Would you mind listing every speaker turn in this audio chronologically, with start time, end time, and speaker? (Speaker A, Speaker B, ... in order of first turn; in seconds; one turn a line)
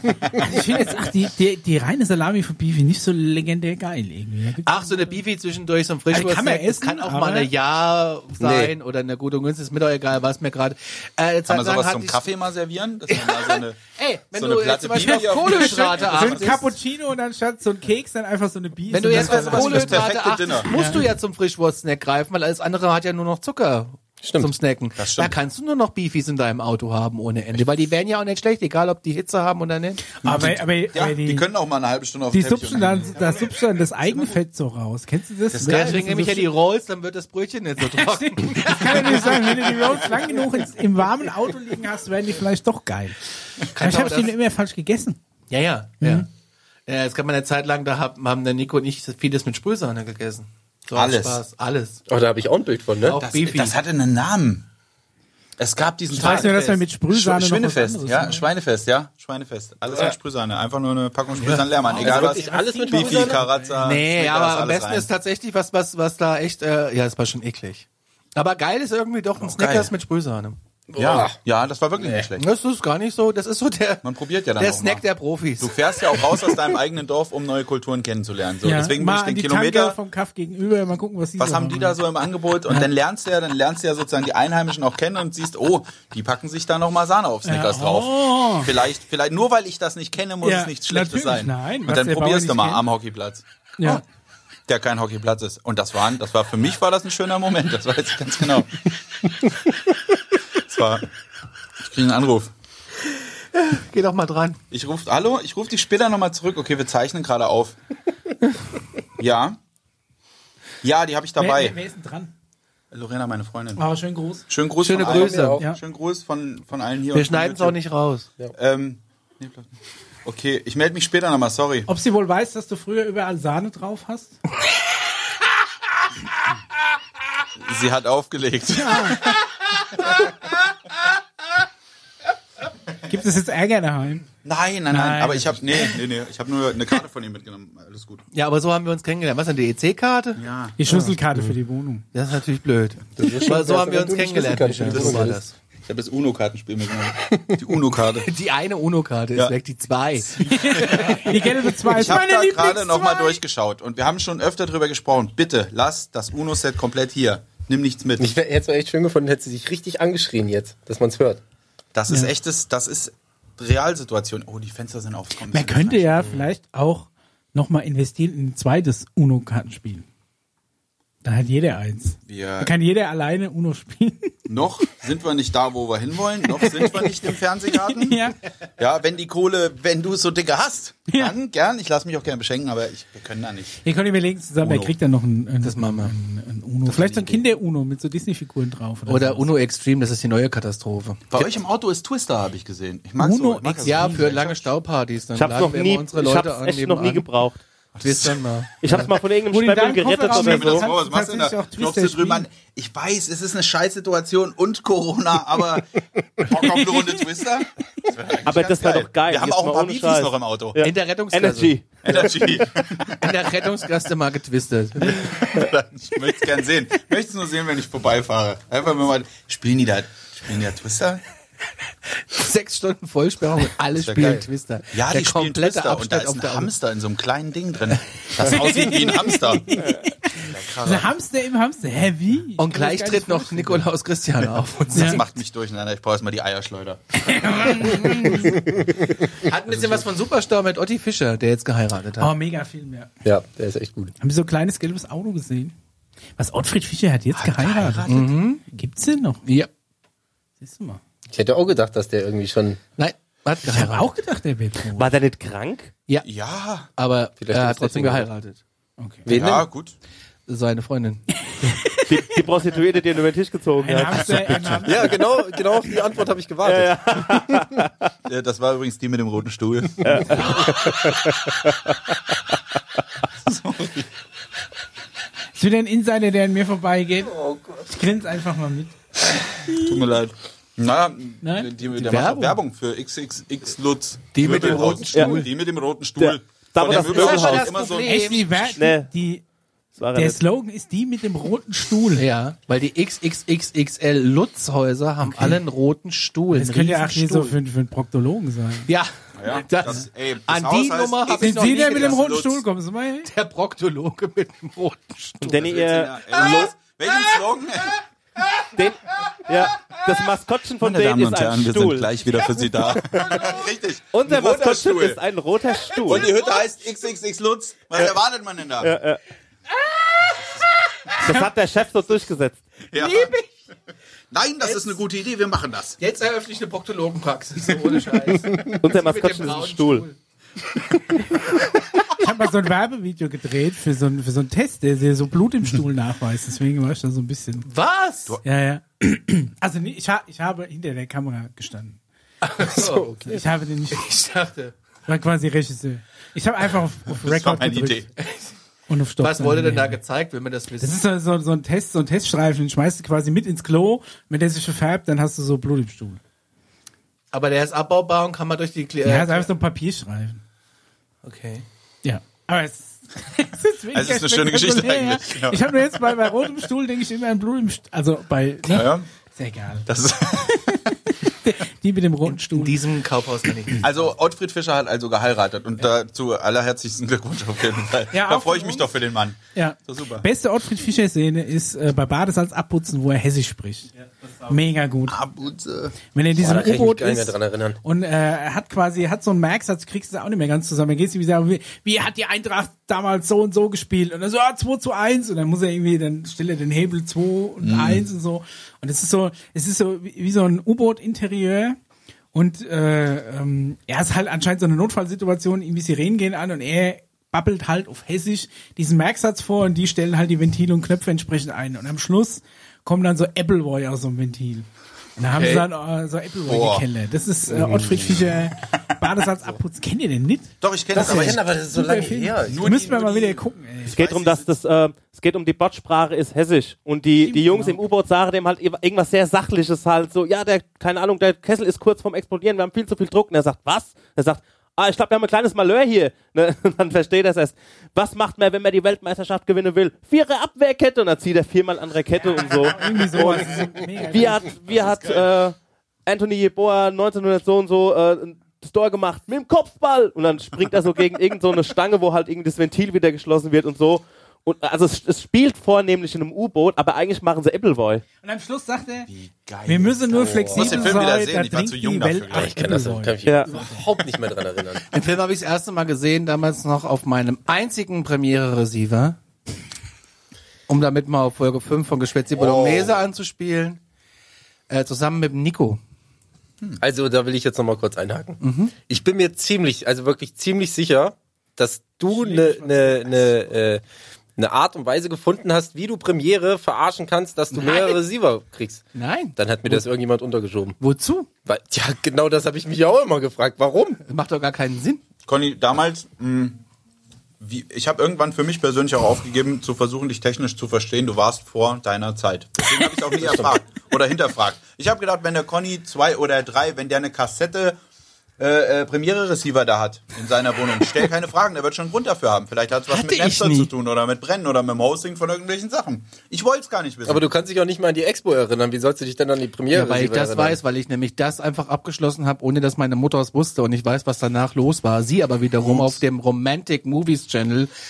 Speaker A: 0.3-5.2
Speaker B: 4.6-12.2
Speaker A: 6.1-7.5
Speaker C: 8.4-8.7
Speaker D: 11.4-13.8
Speaker B: 13.1-16.6
Speaker D: 14.3-16.7
Speaker A: 15.0-20.1
Speaker B: 18.9-30.0
Speaker D: 19.1-20.7
Speaker A: 20.7-21.0
Speaker C: 24.2-24.5
Speaker D: 25.0-25.4
Speaker A: 30.1-31.5
Speaker D: 30.2-34.4
Speaker A: 32.3-36.5
Speaker D: 35.5-36.1
Speaker B: 35.6-40.4
Speaker A: 37.8-43.2
Speaker A: 43.7-45.2
Speaker B: 43.7-44.3
Speaker B: 45.5-46.3
Speaker A: 46.0-46.3
Speaker B: 46.9-52.0
Speaker D: 50.9-51.4
Speaker C: 52.1-53.2
Speaker B: 53.0-53.8
Speaker D: 53.2-54.6
Speaker D: 55.6-65.1
Speaker A: 56.1-58.5
Speaker B: 56.1-56.8
Speaker A: 61.6-63.8
Speaker C: 62.0-63.4
Speaker B: 63.8-70.6
Speaker D: 69.4-69.9
Speaker C: 70.9-71.3
Speaker D: 70.9-72.4
Speaker B: 72.3-75.7
Speaker D: 74.0-75.0
Speaker D: 75.6-80.0
Speaker A: 78.6-82.0
Speaker D: 81.4-94.0
Speaker A: 87.4-88.7
Speaker A: 90.4-92.8
Speaker A: 93.8-94.0
Speaker D: 94.7-98.9
Speaker D: 100.5-101.1
Speaker D: 101.8-102.5
Speaker B: 103.5-104.6
Speaker D: 104.7-107.8
Speaker D: 109.2-109.6
Speaker D: 110.8-111.8
Speaker A: 111.4-112.3
Speaker D: 112.9-113.8
Speaker A: 113.8-114.5
Speaker D: 114.5-117.8
Speaker B: 114.8-115.6
Speaker C: 115.0-115.6
Speaker B: 117.1-118.3
Speaker D: 118.5-119.7
Speaker D: 120.2-121.9
Speaker A: 121.9-124.4
Speaker D: 127.6-129.4
Speaker A: 128.7-129.3
Speaker A: 133.1-134.3
Speaker D: 134.4-138.2
Speaker A: 134.9-135.9
Speaker B: 138.3-140.4
Speaker D: 140.4-140.8
Speaker A: 140.8-142.1
Speaker B: 142.1-145.5
Speaker C: 143.2-145.4
Speaker D: 144.9-145.3
Speaker D: 145.8-148.3
Speaker B: 148.2-151.2
Speaker D: 150.2-158.3
Speaker A: 150.4-153.4
Speaker C: 158.2-161.4
Speaker D: 161.9-166.3
Speaker A: 165.5-170.1
Speaker A: 171.2-174.3
Speaker D: 172.3-172.7
Speaker D: 174.5-178.2
Speaker A: 177.9-178.3
Speaker D: 178.8-183.8
Speaker A: 181.1-181.3
Speaker A: 183.8-189.5
Speaker D: 184.6-184.9
Speaker B: 185.6-186.1
Speaker D: 186.9-187.4
Speaker B: 189.1-191.4
Speaker D: 191.3-194.7
Speaker A: 193.2-194.3
Speaker B: 193.8-197.3
Speaker E: 195.3-197.6
Speaker D: 197.9-198.4
Speaker B: 198.0-199.1
Speaker E: 198.8-200.8
Speaker A: 199.5-202.4
Speaker D: 200.3-210.8
Speaker A: 206.5-207.2
Speaker E: 208.4-211.8
Speaker B: 210.8-211.7
Speaker D: 212.0-213.3
Speaker B: 213.1-215.4
Speaker D: 215.0-221.2
Speaker B: 222.2-226.7
Speaker D: 223.9-231.1
Speaker C: 224.2-224.4
Speaker A: 228.4-233.9
Speaker B: 232.6-235.2
Speaker D: 234.9-237.0
Speaker A: 234.9-235.2
Speaker A: 237.2-238.6
Speaker B: 239.4-242.3
Speaker D: 239.7-240.0
Speaker A: 242.2-243.1
Speaker C: 243.2-244.1
Speaker A: 244.2-245.7
Speaker A: 246.4-249.4
Speaker D: 247.3-248.3
Speaker B: 248.1-248.6
Speaker A: 250.6-251.0
Speaker C: 251.3-252.8
Speaker B: 252.9-254.1
Speaker A: 253.6-255.1
Speaker E: 255.0-255.9
Speaker D: 256.2-256.9
Speaker B: 257.0-258.6
Speaker C: 257.4-258.3
Speaker A: 259.0-259.2
Speaker C: 259.2-259.7
Speaker D: 259.3-259.9
Speaker B: 260.5-261.2
Speaker A: 261.5-262.1
Speaker E: 262.1-264.5
Speaker A: 263.8-265.4
Speaker D: 264.1-264.9
Speaker C: 264.8-267.6
Speaker E: 266.6-268.1
Speaker D: 268.2-270.5
Speaker E: 270.0-270.9
Speaker C: 270.8-271.3
Speaker D: 273.4-274.1
Speaker A: 275.6-279.0
Speaker C: 277.3-277.8
Speaker A: 279.5-280.0
Speaker D: 279.7-288.7
Speaker A: 281.4-281.7
Speaker B: 281.9-282.6
Speaker B: 284.3-285.4
Speaker E: 285.1-285.4
Speaker E: 286.2-287.7
Speaker B: 286.9-288.7
Speaker A: 287.9-289.4
Speaker E: 288.8-289.1
Speaker E: 289.9-290.4
Speaker A: 290.1-292.2
Speaker B: 292.1-297.5
Speaker A: 295.2-295.6
Speaker A: 296.5-298.9
Speaker B: 298.9-302.2
Speaker D: 299.4-302.6
Speaker A: 301.4-303.3
Speaker B: 303.2-305.6
Speaker E: 305.4-306.7
Speaker D: 305.5-307.9
Speaker E: 308.8-312.1
Speaker D: 310.8-315.2
Speaker E: 314.1-316.3
Speaker D: 316.0-318.9
Speaker E: 318.8-319.2
Speaker D: 320.3-320.6
Speaker E: 321.2-322.6
Speaker D: 322.9-323.3
Speaker B: 322.9-323.4
Speaker D: 324.3-326.0
Speaker B: 324.6-325.0
Speaker B: 326.0-330.2
Speaker E: 328.7-330.0
Speaker A: 332.1-337.7
Speaker B: 337.6-338.4
Speaker A: 338.4-342.0
Speaker B: 342.4-343.2
Speaker C: 342.6-343.4
Speaker A: 343.2-344.1
Speaker B: 343.9-344.7
Speaker A: 345.1-348.1
Speaker D: 347.2-348.1
Speaker B: 348.2-348.5
Speaker A: 348.9-350.0
Speaker B: 349.2-351.0
Speaker A: 350.8-356.2
Speaker B: 357.3-359.5
Speaker A: 359.0-360.4
Speaker B: 361.2-361.6
Speaker A: 362.0-369.9
Speaker D: 363.9-366.0
Speaker D: 368.7-369.1
Speaker D: 369.9-370.9
Speaker A: 370.5-372.8
Speaker B: 372.3-374.1
Speaker D: 373.8-380.2
Speaker A: 378.1-378.9
Speaker A: 379.5-383.9
Speaker A: 384.5-385.2
Speaker D: 385.1-385.9
Speaker A: 386.1-401.8
Speaker C: 386.4-387.8
Speaker D: 397.6-398.0
Speaker A: 402.3-424.0
Speaker D: 415.3-415.6
Speaker D: 416.5-416.9
Speaker C: 417.5-418.1
Speaker D: 417.9-418.3
Speaker D: 420.6-421.4
Speaker C: 420.9-422.7
Speaker D: 422.4-424.5
Speaker E: 423.9-458.0
Speaker A: 427.2-427.8
Speaker A: 442.2-444.5
Speaker D: 444.7-445.3
Speaker A: 458.2-459.1
Speaker D: 459.1-462.8
Speaker A: 459.6-463.6
Speaker C: 460.1-461.0
Speaker C: 462.3-464.8
Speaker B: 464.9-469.2
Speaker B: 470.7-473.8
Speaker D: 472.4-472.8
Speaker C: 472.5-472.9
Speaker B: 474.7-475.8
Speaker C: 476.8-483.8
Speaker B: 478.4-478.8
Speaker B: 482.1-483.5
Speaker C: 484.4-488.8
Speaker B: 487.5-488.0
Speaker B: 488.9-489.8
Speaker C: 489.4-490.8
Speaker B: 490.8-491.3
Speaker C: 491.4-494.0
Speaker B: 494.0-495.0
Speaker D: 495.2-496.6
Speaker D: 497.4-507.8
Speaker D: 508.4-517.2
Speaker B: 512.9-513.7
Speaker C: 517.0-520.6
Speaker B: 519.7-527.7
Speaker D: 525.6-526.0